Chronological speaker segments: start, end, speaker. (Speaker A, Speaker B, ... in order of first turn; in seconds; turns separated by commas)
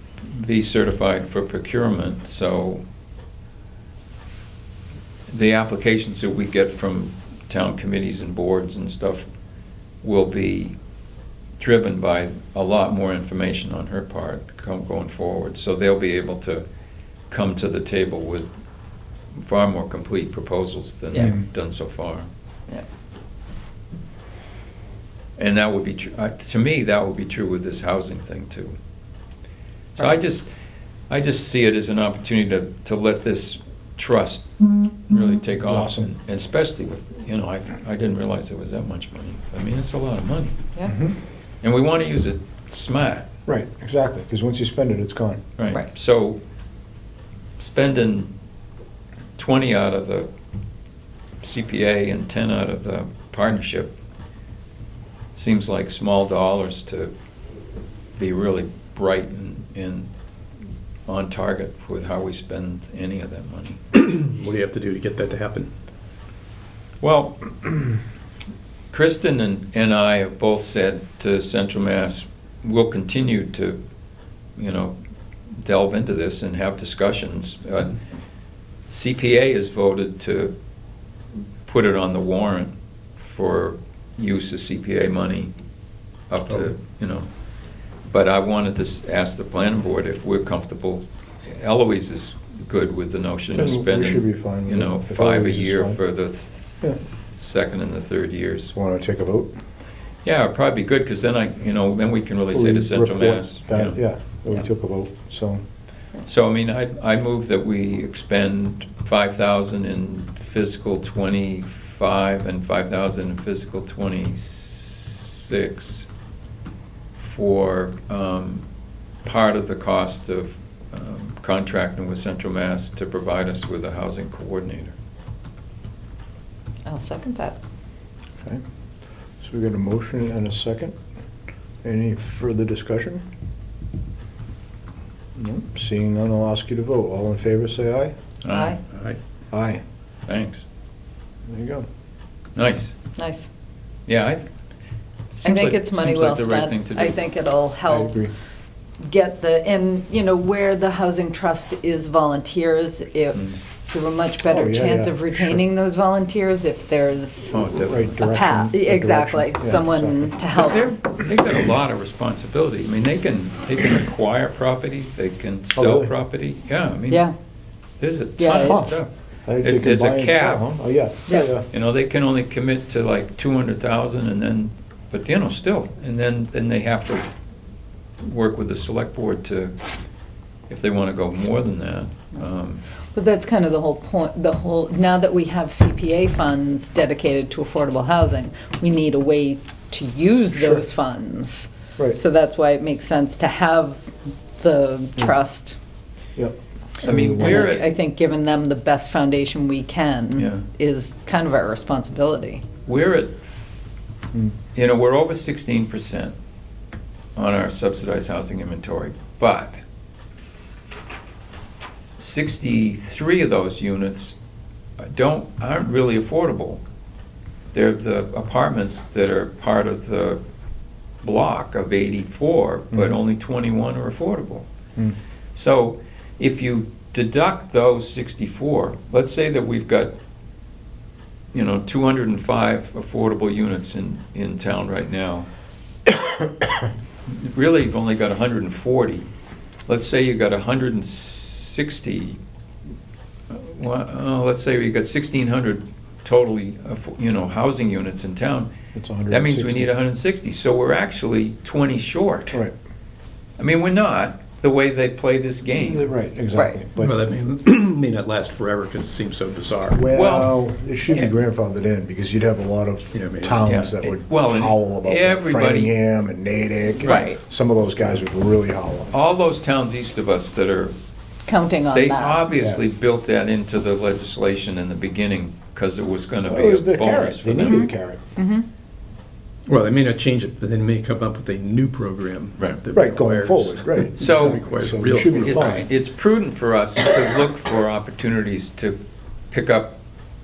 Speaker A: 0.2-2.8, Speaker A: 5.3-9.3, Speaker A: 10.0-10.8, Speaker A: 11.6-16.6, Speaker A: 17.3-18.6, Speaker A: 19.4-22.3, Speaker A: 25.4-28.8, Speaker A: 30.0-30.5, Speaker A: 31.1-34.5, Speaker A: 35.0-40.6, Speaker B: 35.6-36.1, Speaker B: 40.9-41.1, Speaker A: 41.6-43.3, Speaker B: 43.5-45.4, Speaker A: 45.6-46.4, Speaker A: 47.6-48.3, Speaker A: 49.4-50.3, Speaker A: 51.4-54.0, Speaker A: 55.4-57.1, Speaker A: 58.2-60.1, Speaker A: 61.1-63.8, Speaker C: 63.9-65.7, Speaker A: 67.0-67.8, Speaker A: 68.9-73.8, Speaker A: 74.6-75.0, Speaker A: 75.6-78.0, Speaker A: 78.9-80.5, Speaker A: 81.7-85.5, Speaker A: 86.3-87.3, Speaker A: 88.1-98.7, Speaker B: 93.5-96.0, Speaker B: 98.7-99.5, Speaker A: 100.2-104.0, Speaker B: 102.5-105.6, Speaker A: 106.2-116.1, Speaker A: 117.2-118.7, Speaker A: 119.2-125.0, Speaker D: 126.9-127.6, Speaker B: 129.4-130.9, Speaker B: 131.8-133.2, Speaker B: 135.3-138.1, Speaker A: 138.4-138.8, Speaker D: 138.5-138.8, Speaker C: 138.9-139.2, Speaker B: 139.5-139.8, Speaker A: 140.3-140.6, Speaker B: 141.5-141.8, Speaker A: 142.6-142.9, Speaker D: 143.2-143.5, Speaker A: 144.1-144.5, Speaker A: 145.3-147.2, Speaker D: 145.4-148.2, Speaker B: 147.9-148.3, Speaker D: 149.0-160.9, Speaker B: 154.5-155.6, Speaker A: 157.5-158.3, Speaker B: 157.7-160.3, Speaker A: 160.5-167.2, Speaker B: 165.8-166.1, Speaker D: 167.1-167.3, Speaker A: 168.0-169.1, Speaker D: 168.4-168.9, Speaker B: 168.6-171.7, Speaker A: 169.6-170.7, Speaker A: 171.7-177.3, Speaker A: 178.2-179.7, Speaker A: 180.7-182.8, Speaker D: 183.1-195.8, Speaker B: 190.6-190.8, Speaker B: 196.4-197.7, Speaker A: 197.0-197.9, Speaker D: 197.3-202.6, Speaker A: 200.4-200.6, Speaker A: 202.9-203.4, Speaker A: 204.8-206.3, Speaker A: 207.4-209.8, Speaker A: 212.2-214.3, Speaker A: 215.0-216.8, Speaker A: 217.7-220.4, Speaker A: 221.2-224.7, Speaker A: 225.6-230.1, Speaker A: 231.5-235.5, Speaker A: 237.3-239.3, Speaker A: 239.9-242.4, Speaker A: 243.5-248.7, Speaker B: 248.9-249.9, Speaker A: 249.3-252.6, Speaker A: 253.6-256.1, Speaker B: 255.7-257.2, Speaker D: 256.5-256.8, Speaker C: 257.0-260.0, Speaker B: 259.9-269.1, Speaker A: 260.1-261.3, Speaker C: 263.1-263.7, Speaker A: 263.6-265.9, Speaker D: 267.0-267.4, Speaker A: 267.0-267.4, Speaker A: 269.1-270.9, Speaker D: 271.5-272.4, Speaker A: 271.9-277.9, Speaker B: 276.5-278.2, Speaker D: 277.6-278.7, Speaker C: 279.7-285.9, Speaker B: 282.9-285.9, Speaker A: 284.2-284.6, Speaker A: 285.4-289.0, Speaker A: 289.5-290.0